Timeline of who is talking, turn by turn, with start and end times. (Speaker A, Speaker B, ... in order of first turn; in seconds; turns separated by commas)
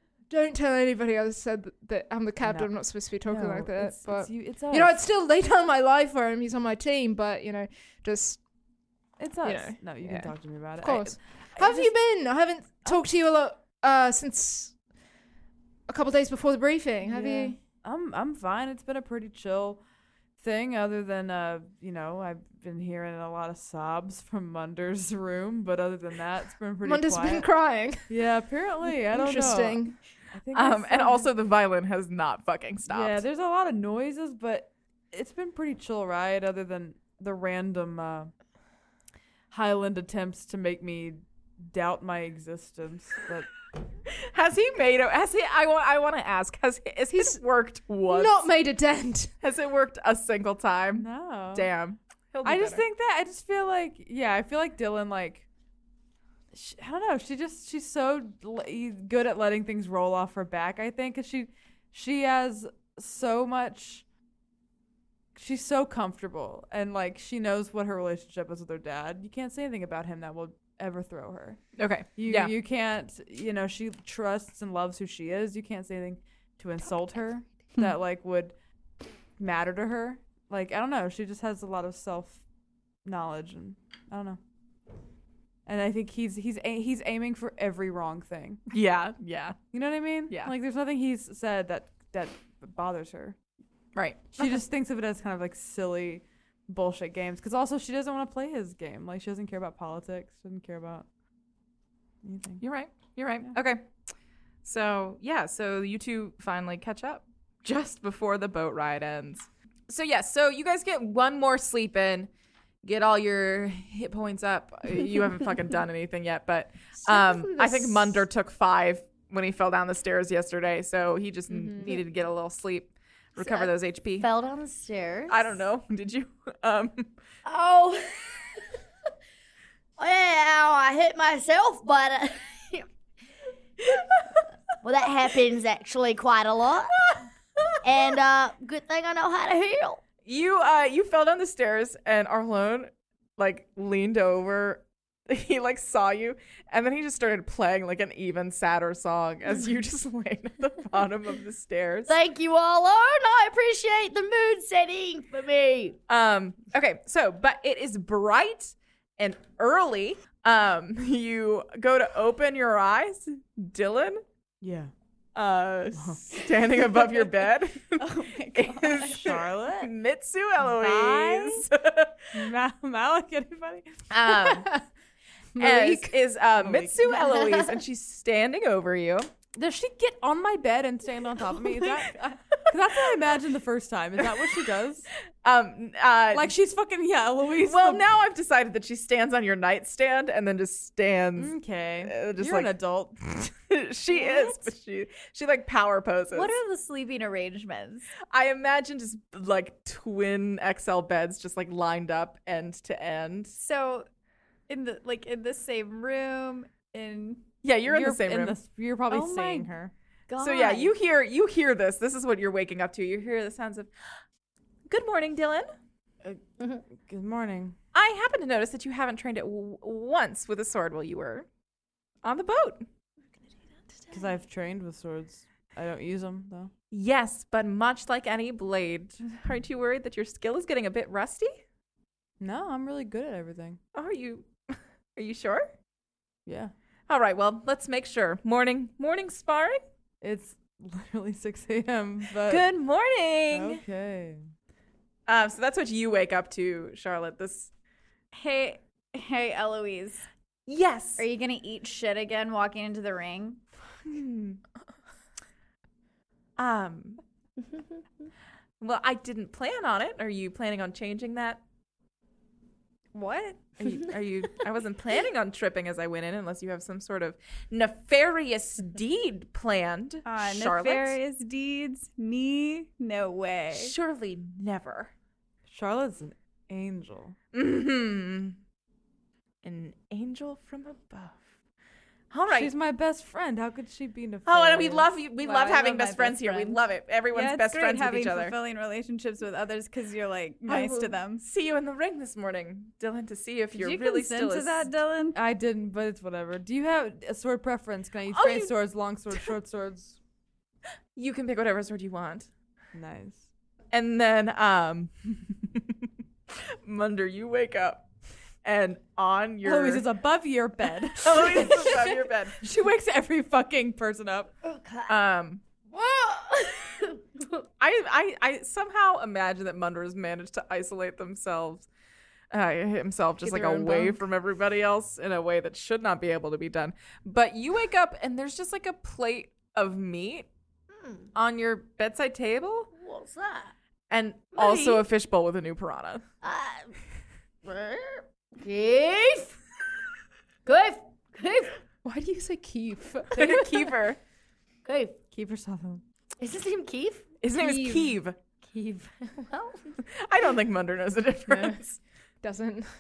Speaker A: 0.3-8.4, Speaker B: 2.4-2.7, Speaker B: 3.3-5.0, Speaker B: 9.2-11.9, Speaker A: 9.4-14.8, Speaker A: 15.9-17.6, Speaker B: 17.0-19.8, Speaker B: 20.4-27.5, Speaker A: 26.8-28.1, Speaker B: 28.1-31.3, Speaker A: 28.9-30.0, Speaker C: 30.5-33.2, Speaker B: 32.9-38.3, Speaker B: 39.5-43.5, Speaker C: 44.1-48.5, Speaker A: 47.1-47.4, Speaker A: 48.1-49.3, Speaker C: 49.4-52.8, Speaker B: 51.0-51.7, Speaker B: 52.4-55.5, Speaker B: 56.5-64.0, Speaker B: 65.3-78.5, Speaker C: 71.8-72.5, Speaker B: 79.4-82.4, Speaker B: 83.0-84.4, Speaker B: 85.7-88.6, Speaker C: 88.7-89.6, Speaker B: 89.7-93.4, Speaker C: 94.0-94.5, Speaker B: 94.4-101.1, Speaker B: 102.2-102.6, Speaker C: 102.6-103.9, Speaker C: 104.6-112.3, Speaker C: 112.8-124.3, Speaker D: 123.4-125.4, Speaker C: 125.3-127.1, Speaker D: 127.5-128.6, Speaker D: 130.0-132.9, Speaker D: 134.8-137.0, Speaker D: 137.8-140.0, Speaker C: 140.2-152.1, Speaker D: 152.1-156.0, Speaker C: 156.1-164.2, Speaker B: 164.6-164.9, Speaker C: 165.3-172.2, Speaker B: 166.0-166.2, Speaker E: 168.1-169.0, Speaker B: 168.3-169.9, Speaker B: 170.6-171.7, Speaker B: 172.3-173.9, Speaker C: 174.1-174.7, Speaker A: 174.3-174.8, Speaker A: 175.6-176.1, Speaker C: 175.6-179.3, Speaker B: 176.6-177.2, Speaker B: 179.6-185.1, Speaker C: 185.4-186.5, Speaker B: 186.3-188.1, Speaker C: 187.7-192.7, Speaker B: 191.4-193.2, Speaker C: 193.4-196.6, Speaker E: 194.1-194.6, Speaker E: 196.3-198.1, Speaker C: 198.3-203.6, Speaker E: 203.6-204.1, Speaker E: 204.7-207.4, Speaker C: 207.6-208.6, Speaker B: 207.9-209.9, Speaker E: 209.1-209.7, Speaker D: 210.3-210.9, Speaker C: 210.4-213.9, Speaker C: 214.9-215.7, Speaker B: 217.0-217.8, Speaker C: 217.9-221.5, Speaker C: 222.2-222.9, Speaker B: 224.1-226.7, Speaker C: 226.9-231.6, Speaker B: 232.4-233.8, Speaker C: 233.9-235.7, Speaker B: 236.5-236.7, Speaker C: 237.1-239.8, Speaker B: 240.2-242.7, Speaker C: 242.5-243.8, Speaker B: 243.5-244.4, Speaker C: 245.3-247.7, Speaker E: 248.3-250.3, Speaker C: 250.7-251.3, Speaker E: 251.2-253.6, Speaker C: 254.0-254.6, Speaker C: 256.6-257.2, Speaker C: 258.8-261.6, Speaker E: 263.1-263.8, Speaker C: 263.8-271.2, Speaker E: 270.2-273.9, Speaker C: 273.7-275.1, Speaker B: 275.7-277.4, Speaker C: 277.5-278.6, Speaker C: 279.6-281.4, Speaker C: 282.3-282.7, Speaker B: 282.5-285.1, Speaker C: 284.5-288.6, Speaker E: 285.4-291.5, Speaker C: 290.7-294.9, Speaker E: 293.7-295.4, Speaker B: 295.4-300.2, Speaker C: 298.3-298.7, Speaker C: 301.2-302.5, Speaker B: 302.9-303.4, Speaker C: 303.9-306.0, Speaker C: 306.5-308.1, Speaker C: 308.6-310.1, Speaker B: 309.6-314.5, Speaker C: 311.1-312.6, Speaker D: 314.6-315.1, Speaker C: 315.1-315.6, Speaker D: 315.9-317.4, Speaker C: 317.8-321.9, Speaker C: 322.5-330.5, Speaker E: 323.8-324.1, Speaker D: 330.9-331.3, Speaker C: 331.4-332.9, Speaker D: 332.9-333.7, Speaker C: 334.1-336.2, Speaker D: 334.6-335.1, Speaker D: 336.4-337.0, Speaker D: 337.6-339.6, Speaker D: 340.7-341.8, Speaker A: 342.0-343.9, Speaker C: 343.3-344.2, Speaker D: 344.9-345.2, Speaker B: 345.3-346.0, Speaker D: 346.4-347.3, Speaker C: 347.4-348.4, Speaker A: 347.5-348.1, Speaker D: 348.6-349.9, Speaker C: 350.1-352.0, Speaker A: 352.4-352.9